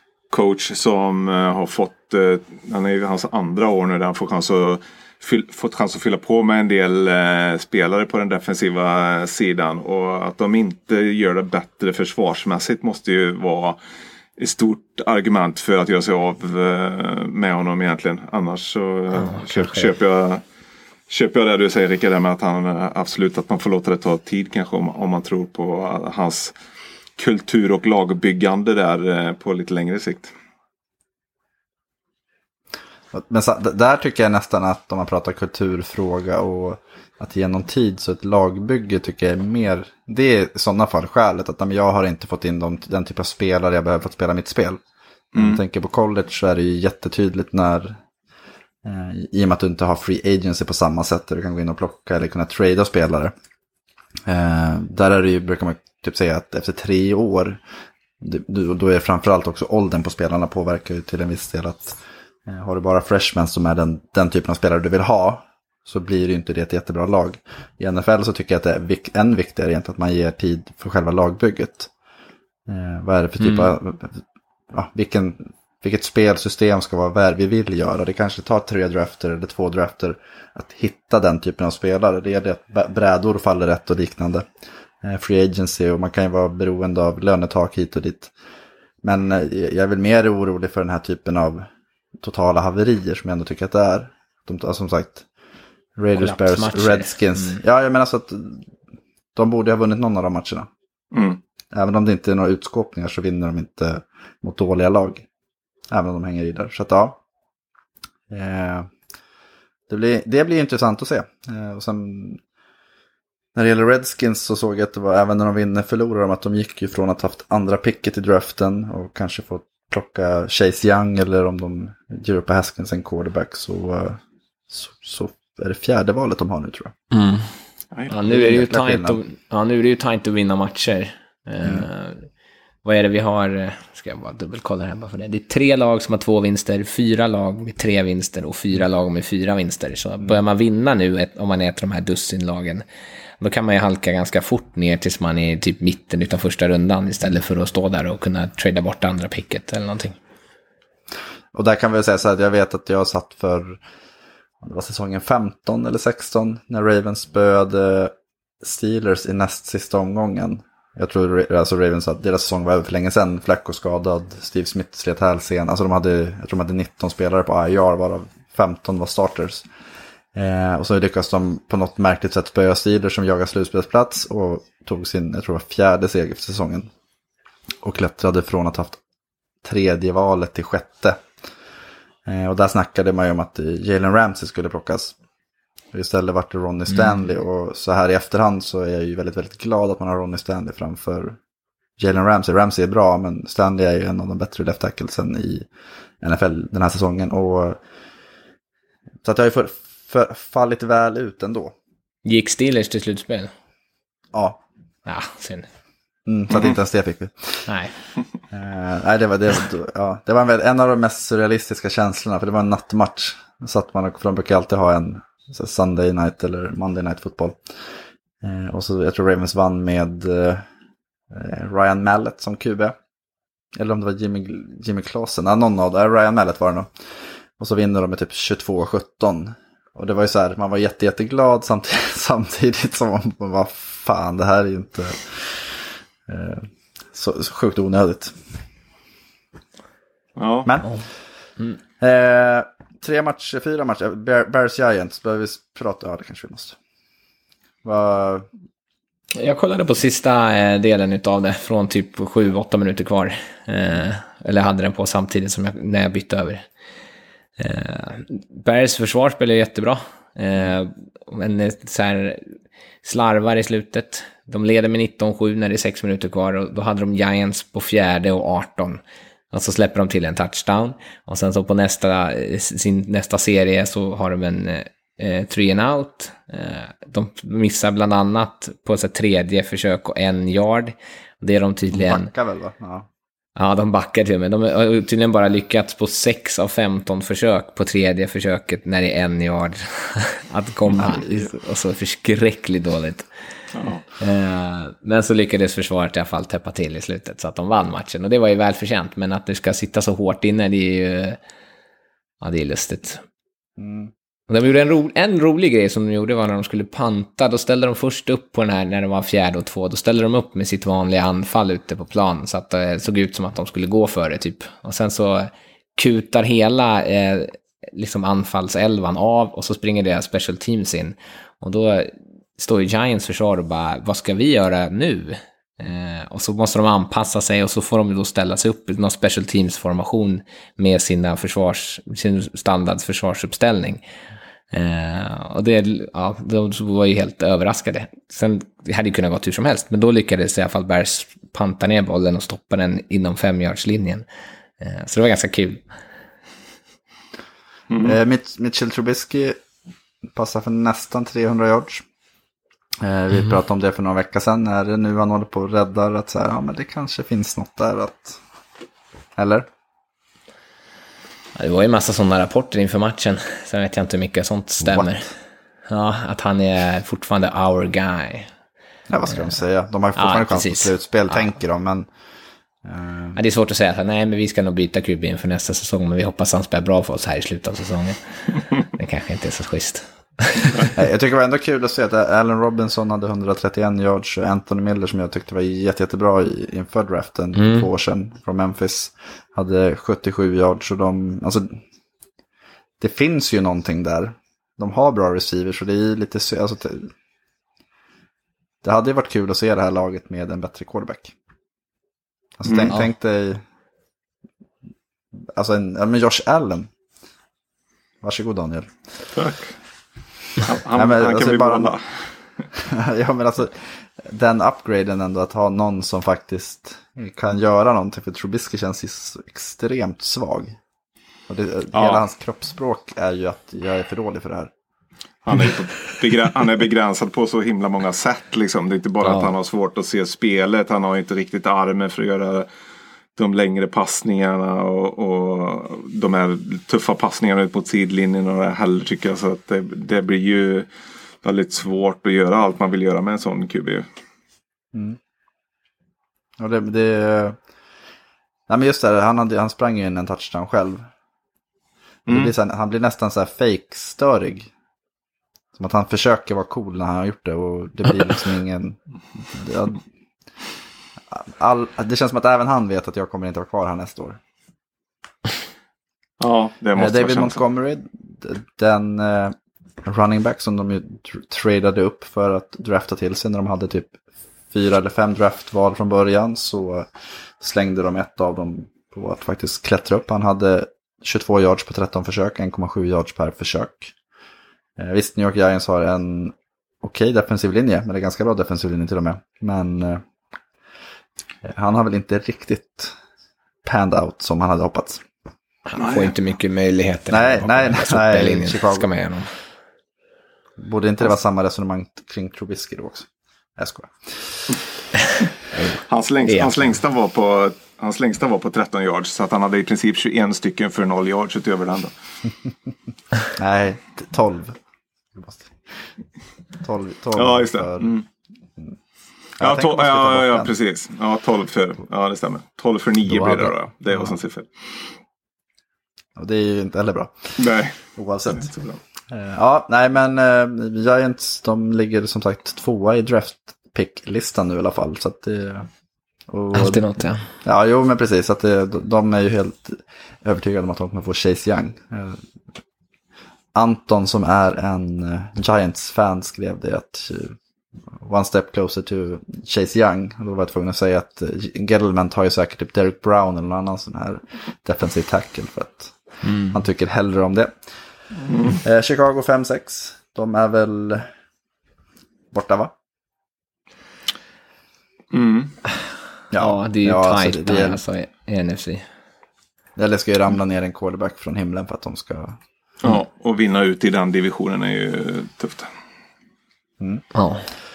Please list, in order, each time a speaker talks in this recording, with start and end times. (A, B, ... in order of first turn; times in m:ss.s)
0:00.3-0:13.8 A
0:14.4-0:20.4 A
0:19.1-0:19.9 B
0:21.1-0:26.5 A
0:27.2-0:30.3 A
0:33.1-0:44.8 C
0:45.3-0:45.6 A
0:45.3-0:48.0 C
0:48.8-0:53.3 C
0:54.3-0:57.6 C
0:58.2-1:11.9 C
1:12.7-1:14.2 C
1:13.4-1:13.7 B
1:14.7-1:24.4 C
1:25.0-1:28.3 C
1:29.0-1:31.7 C
1:32.2-1:35.2 C
1:36.0-1:38.6 C
1:36.1-1:37.6 B
1:39.3-1:40.7 C
1:41.1-1:41.4 A
1:41.7-1:45.2 C
1:45.9-1:47.2 C
1:48.3-1:48.9 C
1:49.9-1:52.4 C
1:53.5-2:06.9 C
2:07.1-2:07.5 B
2:08.1-2:12.3 B
2:08.2-2:09.2 C
2:12.8-2:22.8 B
2:23.4-2:30.2 B
2:31.5-2:33.8 C
2:34.6-2:49.6 C
2:50.3-2:56.9 C
2:57.8-2:59.0 C
2:59.6-3:01.2 C
3:02.2-3:05.1 C
3:05.9-3:11.4 C
3:12.0-3:15.7 C
3:16.2-3:17.8 C
3:19.2-3:21.7 C
3:22.2-3:23.5 B
3:24.3-3:24.6 C
3:25.0-3:25.7 B
3:26.2-3:27.7 C
3:27.7-3:27.9 B
3:28.5-3:37.8 C
3:38.4-3:40.6 C
3:41.3-3:43.0 C
3:43.8-3:46.9 C
3:47.6-3:58.4 C
4:00.4-4:00.7 A
4:00.6-4:00.9 C
4:02.0-4:06.8 C
4:07.8-4:08.5 C
4:09.4-4:16.7 B
4:17.6-4:22.5 B
4:23.0-4:42.3 B
4:41.9-4:43.1 C
4:43.6-4:53.3 B
4:51.0-4:51.5 C
4:53.7-4:54.0 A
4:54.2-5:01.4 B
5:02.4-5:03.2 B
5:03.8-5:04.1 C
5:04.5-5:34.0 B
5:34.7-5:44.2 B
5:44.8-5:45.8 B
5:47.9-5:48.2 A
5:48.0-5:49.6 C
5:50.3-5:52.0 C
5:53.0-5:58.4 C
5:59.4-5:59.7 C
6:01.6-6:05.3 B
6:04.8-6:05.2 C
6:05.9-6:08.5 B
6:09.1-6:12.1 C
6:10.2-6:11.5 B
6:12.8-6:13.4 C
6:13.4-6:20.9 B
6:20.9-6:31.8 C
6:27.5-6:27.9 B
6:33.0-6:37.1 C
6:38.8-6:41.3 C
6:42.6-6:43.6 C
6:42.6-6:43.0 A
6:45.6-6:46.9 C
6:48.2-6:48.9 C
6:49.3-6:49.7 A
6:50.6-6:52.3 A
6:50.9-6:52.0 C
6:52.8-7:00.8 C
7:01.5-7:04.7 C
7:05.4-7:12.7 A
7:09.2-7:09.5 B
7:13.3-7:20.9 A
7:21.4-7:24.0 A
7:26.6-7:27.6 C
7:28.7-7:31.0 C
7:32.2-7:34.7 C
7:35.7-7:40.0 C
7:41.3-7:44.4 C
7:46.4-7:47.6 A
7:46.9-7:54.2 C
7:54.7-8:04.1 C
8:05.0-8:10.2 C
8:11.6-8:13.2 C
8:13.8-8:15.2 C
8:15.9-8:19.5 B
8:16.0-8:16.3 A
8:17.3-8:19.1 C
8:20.8-8:24.7 C
8:25.7-8:26.8 B
8:26.0-8:32.1 A
8:33.6-8:34.8 C
8:35.3-8:35.7 C
8:36.8-8:38.1 C
8:37.3-8:38.2 A
8:39.6-8:40.7 C
8:39.6-8:45.1 A
8:43.2-8:43.7 C
8:46.4-8:48.7 C
8:47.6-8:49.0 A
8:49.3-8:55.9 C
8:56.5-8:57.1 C
8:56.7-8:57.4 B
8:57.6-9:02.4 C
9:03.7-9:07.6 C
9:08.2-9:16.2 C
9:16.4-9:16.8 B
9:16.7-9:17.8 C
9:18.4-9:18.8 A
9:18.8-9:21.3 C
9:22.5-9:22.9 C
9:25.3-9:25.7 A
9:26.5-9:28.0 C
9:26.5-9:29.0 B
9:30.0-9:32.6 C
9:33.0-9:35.9 A
9:37.3-9:37.6 B